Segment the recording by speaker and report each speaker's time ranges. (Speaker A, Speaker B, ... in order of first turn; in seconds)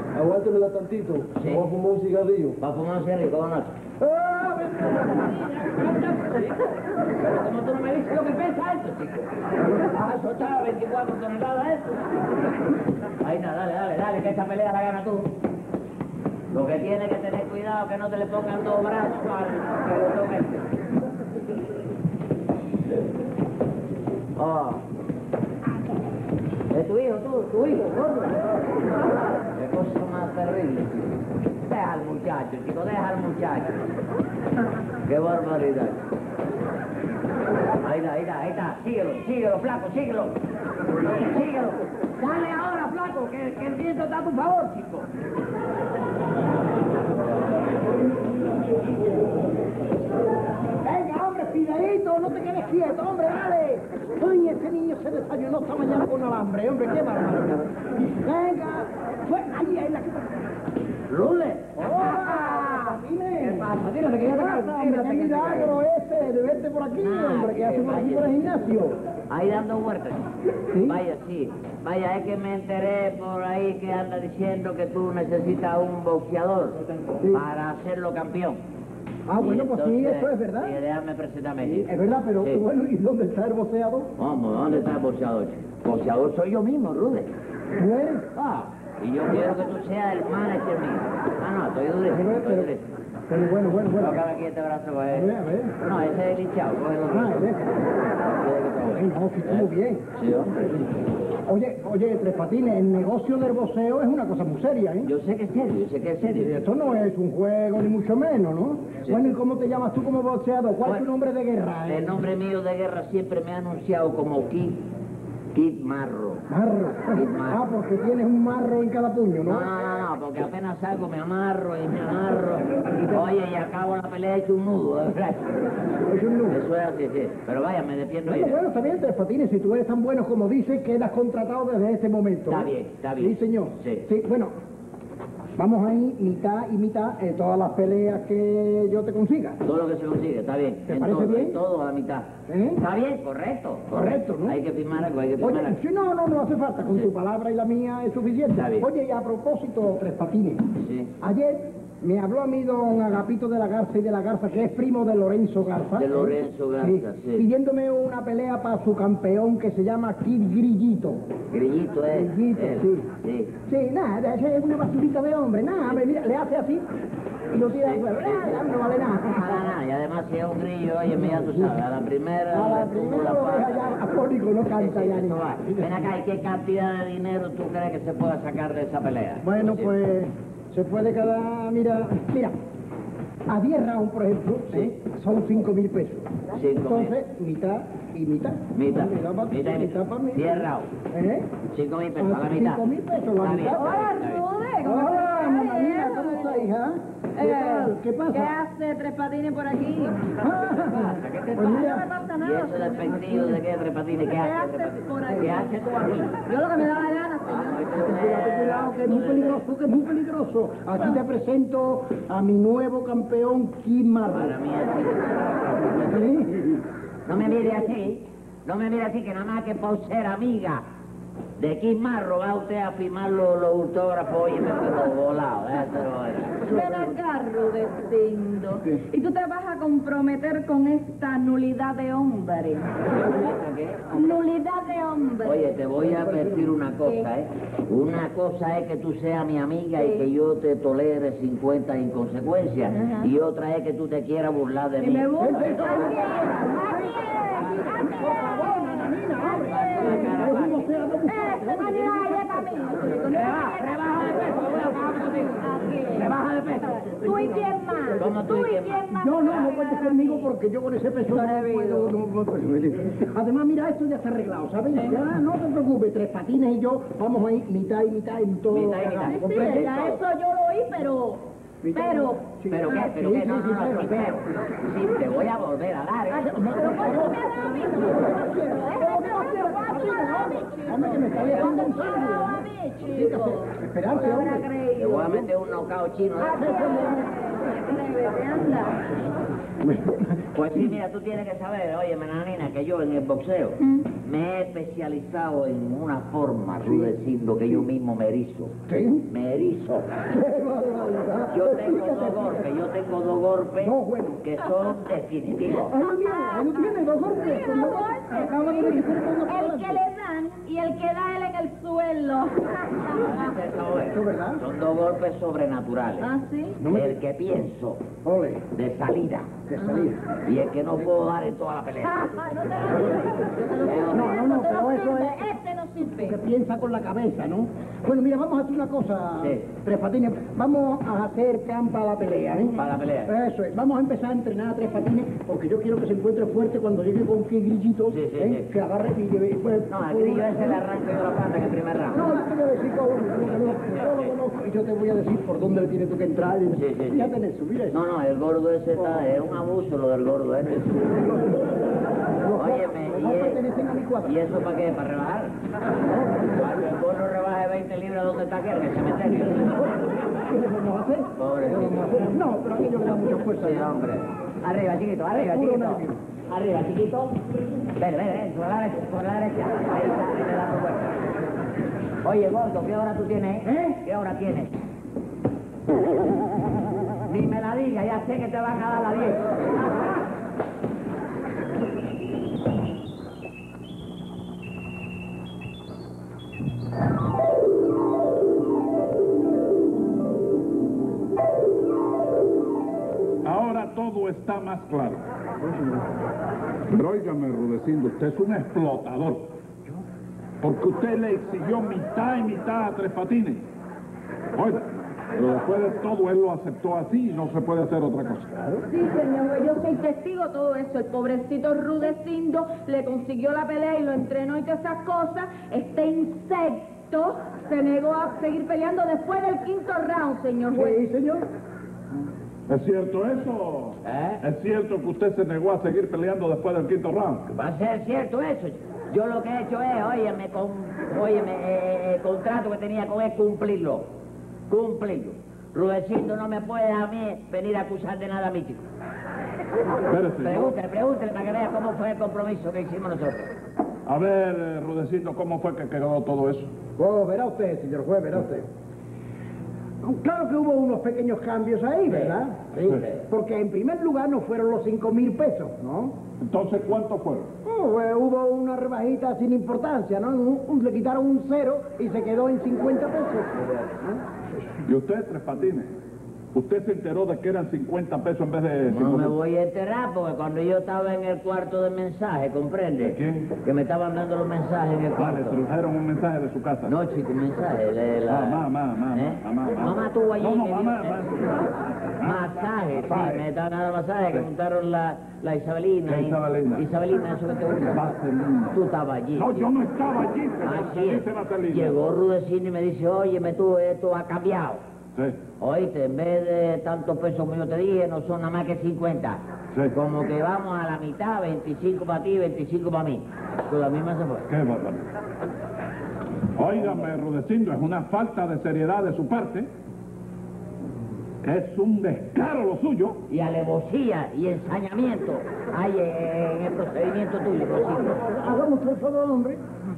Speaker A: 0.1-2.6, 4.0-5.3
Speaker B: 1.4-1.7, 2.6-3.8, 7.2-12.0, 13.2-15.3, 16.5-20.6, 24.4-24.8, 26.7-28.4, 29.6-33.9, 35.0-36.0, 37.8-40.4, 41.1-45.1, 61.1-62.1, 63.4-65.8, 67.0-68.3, 69.3-78.6, 79.4-82.6, 84.2-87.3, 88.3-92.9, 94.0-95.3, 95.8-97.4, 98.2-100.6, 105.0-106.6, 111.9-114.8, 115.5-116.5, 117.1-117.6, 119.5-125.6, 126.5-128.6, 132.5-134.1, 139.6-145.8, 148.6-148.9, 150.8-151.1, 156.0-157.5, 161.5-163.5, 167.7-168.6, 169.3-174.0, 174.7-179.9, 186.5-187.2, 188.8-190.9, 191.7-192.8, 193.4-194.4, 200.6-206.4, 207.4-209.6, 214.3-216.2, 217.3-220.8, 221.6-226.8, 233.1-234.2, 235.4-246.1, 249.6-250.8, 253.3-257.0, 258.2-259.1, 268.7-270.2, 272.7-276.8, 284.9-287.1, 290.5-298.8, 299.3-300.2, 301.5-305.9, 313.1-316.3, 316.9-318.0, 318.7-319.6, 320.4-322.3, 323.8-324.2, 332.8-333.3, 338.1-338.7, 339.9-342.3, 343.5-344.3, 346.8-347.3, 347.9-351.3, 352.6-353.6, 354.2-355.5, 356.3-359.9, 361.4-362.0, 363.6-367.4, 368.0-371.2, 372.2-374.7, 377.3-379.4, 424.0-424.4, 427.5-434.1, 434.7-438.8, 440.4-443.5, 452.1-453.2, 468.9-475.6, 476.9-481.3, 482.2-488.1, 488.7-489.7, 490.6-494.8, 495.6-499.4, 499.9-504.5, 513.3-518.2
Speaker C: 50.8-60.3, 61.8-69.0, 70.7-71.0, 79.3-80.8, 81.8-84.1, 87.8-88.3, 92.1-92.7, 93.3-94.2, 95.1-95.7, 97.1-97.9, 99.0-100.0, 101.5-105.1, 106.3-112.2, 116.5-119.7, 126.1-126.6, 128.3-134.5, 135.6-139.6, 140.9-141.6, 142.5-142.8, 143.9-144.6, 145.4-161.2, 162.1-163.1, 163.7-166.8, 167.5-169.7, 171.2-171.8, 172.5-176.1, 179.4-182.6, 183.5-186.3, 186.8-191.5, 192.2-194.0, 194.8-198.6, 200.4-202.1, 203.3-203.5, 205.3-205.6, 207.9-214.6, 215.9-216.6, 236.0-236.8, 245.4-253.3, 257.3-257.6, 259.1-270.0, 271.8-274.4, 276.3-284.7, 286.7-287.2, 289.8-290.4, 296.9-297.1, 298.9-299.3, 300.2-302.6, 303.8-304.4, 305.9-310.0, 314.1-314.6, 316.8-317.2, 318.2-318.6, 319.7-320.2, 323.9-325.5, 326.1-340.8, 342.1-348.0, 351.2-351.5, 352.4-354.4, 356.1-356.4, 360.5-363.9, 365.3-366.2, 420.7-421.4, 447.0-448.7, 450.0-456.2, 457.6-464.2, 518.0-519.6
Speaker D: 193.7-196.7, 197.4-200.3, 201.6-203.5, 204.3-205.7, 206.5-207.8, 226.6-233.0, 234.1-235.8, 240.0-240.3, 243.0-243.3, 245.0-250.7, 251.3-260.5, 261.3-262.1, 269.3-273.1, 276.5-285.4, 286.4-289.0, 293.8-294.1, 306.0-313.4, 316.2-316.8, 322.0-326.4, 408.9-421.0
Speaker E: 393.4-395.2, 396.9-399.4, 400.6-403.6, 404.6-408.8, 422.7-427.5, 440.1-440.7, 444.1-446.7, 456.4-457.5, 464.8-465.9, 466.5-469.3, 473.0-473.5, 475.2-476.9, 478.3-481.6, 482.2-483.4, 486.1-486.9, 487.9-488.8, 489.4-492.0, 504.5-505.1, 506.6-509.7, 511.4-513.2